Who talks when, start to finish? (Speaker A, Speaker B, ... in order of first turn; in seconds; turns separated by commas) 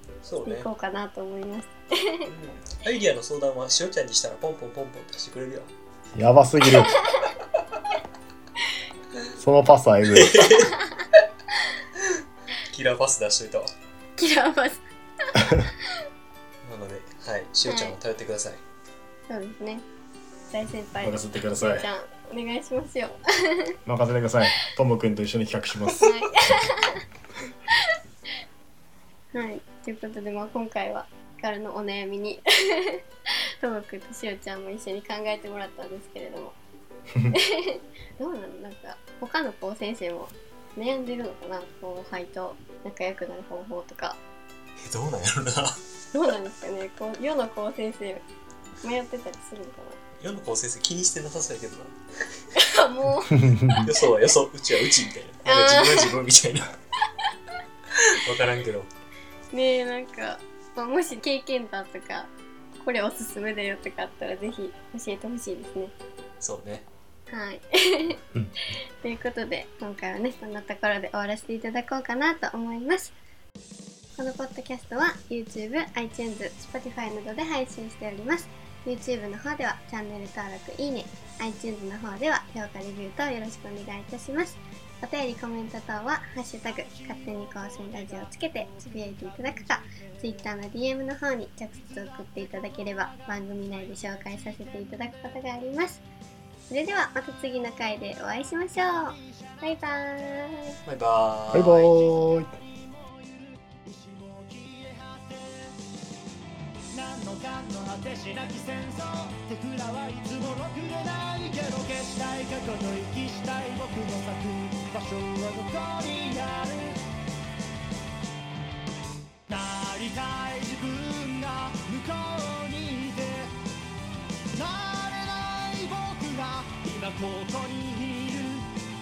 Speaker A: 0.2-0.7, Speaker B: 0.5-2.3, Speaker A: 2.3-5.7, Speaker C: 6.2-7.0, Speaker B: 7.0-7.2, Speaker C: 9.4-10.4, Speaker A: 10.1-10.8, Speaker A: 12.7-13.7, Speaker B: 14.2-14.8, Speaker B: 15.3-15.6, Speaker A: 16.6-18.6, Speaker B: 17.7-18.0, Speaker B: 19.3-19.9, Speaker B: 20.5-23.8, Speaker C: 21.0-21.9, Speaker C: 23.9-26.2, Speaker B: 26.0-27.0, Speaker B: 29.3-33.0, Speaker B: 33.6-36.6, Speaker B: 37.3-44.2, Speaker A: 44.8-45.8, Speaker B: 46.1-48.2, Speaker B: 48.8-50.0, Speaker A: 50.2-51.9, Speaker B: 52.5-53.9, Speaker C: 53.3-53.9, Speaker A: 53.8-56.7, Speaker B: 55.5-56.2, Speaker A: 58.1-58.9, Speaker B: 59.5-65.9, Speaker A: 66.4-66.9, Speaker B: 67.3-68.2, Speaker B: 69.0-73.1, Speaker B: 74.2-96.0, Speaker B: 96.7-100.8, Speaker A: 100.9-101.9, Speaker C: 101.5-102.5, Speaker D: 102.0-105.8, Speaker D: 106.9-117.0, Speaker D: 119.5-123.5, Speaker D: 124.5-128.7